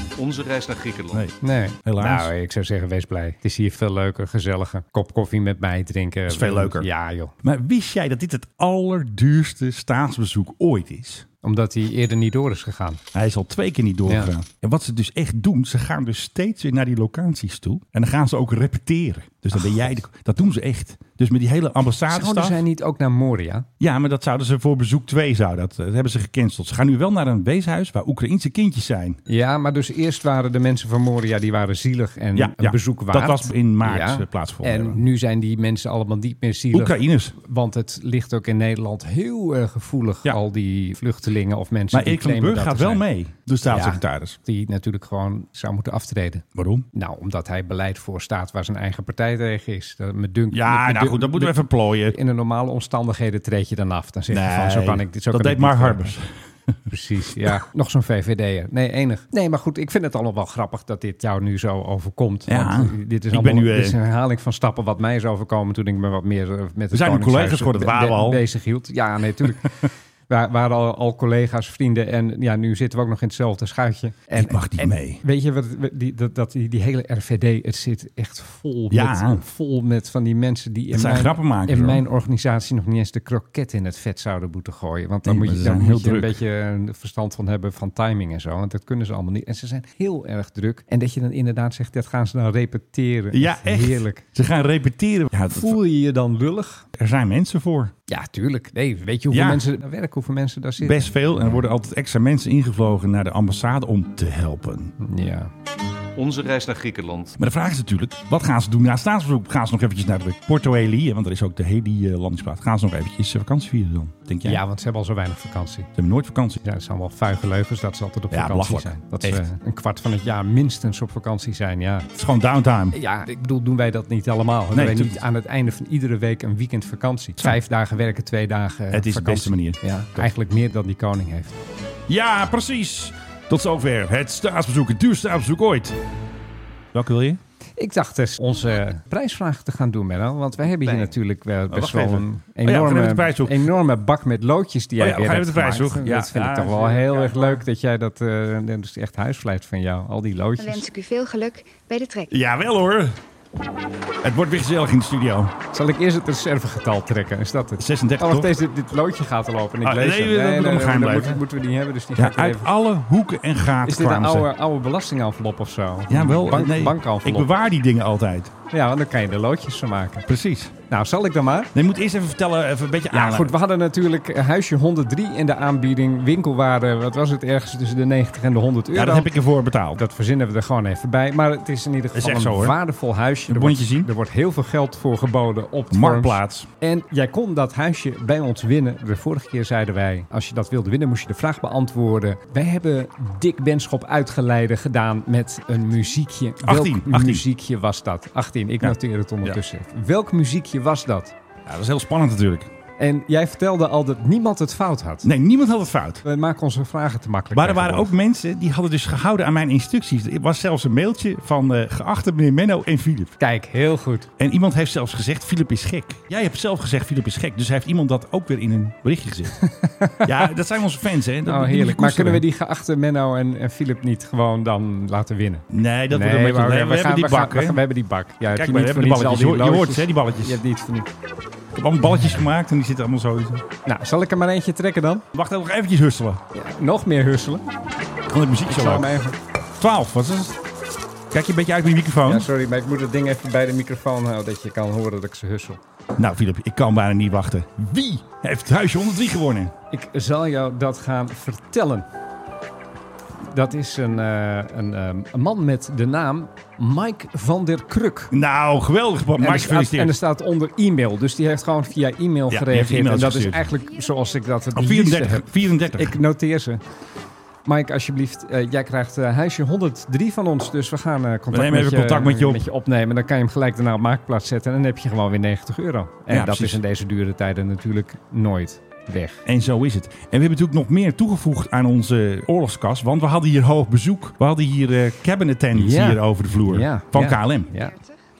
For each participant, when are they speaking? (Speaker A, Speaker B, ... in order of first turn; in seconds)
Speaker A: 0.2-1.3, 106.2-107.3, 140.7-141.2
Speaker B: 1.1-2.3, 6.3-6.9, 7.4-11.2, 13.1-22.6, 23.8-29.2, 32.3-35.0, 36.7-37.3, 41.9-44.4, 46.5-46.8, 50.5-52.1, 54.3-56.7, 62.5-64.0, 66.9-68.4, 74.3-75.2, 78.9-79.4, 80.9-82.0, 85.2-86.4, 93.3-95.8, 97.0-97.9, 99.3-99.6, 100.8-104.9, 107.4-114.6, 115.9-116.6, 118.3-119.4, 122.1-123.0, 124.7-125.2, 128.9-130.3, 132.1-136.0, 136.9-137.4, 141.7-143.7, 145.0-147.6, 152.3-153.2, 154.2-155.5, 157.8-158.5, 159.8-161.4, 162.2-164.5, 166.1-168.5, 170.3-170.7, 171.7-173.5, 178.9-180.0, 182.1-182.8, 183.5-184.1, 185.9-186.7, 196.6-197.4, 198.8-199.6, 201.7-202.7, 205.2-206.2, 207.5-213.3, 214.4-219.6, 220.2-222.4, 225.7-227.8, 228.5-230.6, 231.7-233.6, 235.3-236.4, 238.3-239.1, 239.8-240.6, 241.3-242.5, 246.2-249.7, 258.3-260.2, 262.5-263.7, 264.7-266.2, 271.5-272.6, 276.3-276.8, 279.4-287.7
Speaker C: 1.4-7.3, 11.4-13.0, 14.1-14.3, 22.1-23.7, 29.3-43.0, 43.7-56.1, 56.9-69.7, 70.3-94.2, 95.5-96.8, 98.1-101.1, 105.0-105.5, 114.4-115.9, 116.6-122.1, 122.9-131.6, 137.8-150.8, 155.7-162.7, 163.8-167.5, 168.7-170.2, 170.9-171.7, 173.1-179.3, 179.9-201.3, 203.0-205.3, 206.2-208.1, 213.4-214.3, 219.6-220.5, 221.4-231.1, 233.8-235.2, 236.5-237.6, 238.7-239.3, 242.2-245.8, 249.9-252.1, 253.4-258.3, 259.4-266.8, 267.6-279.4, 285.7-287.9
Speaker D: 150.6-152.3, 263.4-264.8, 287.7-288.2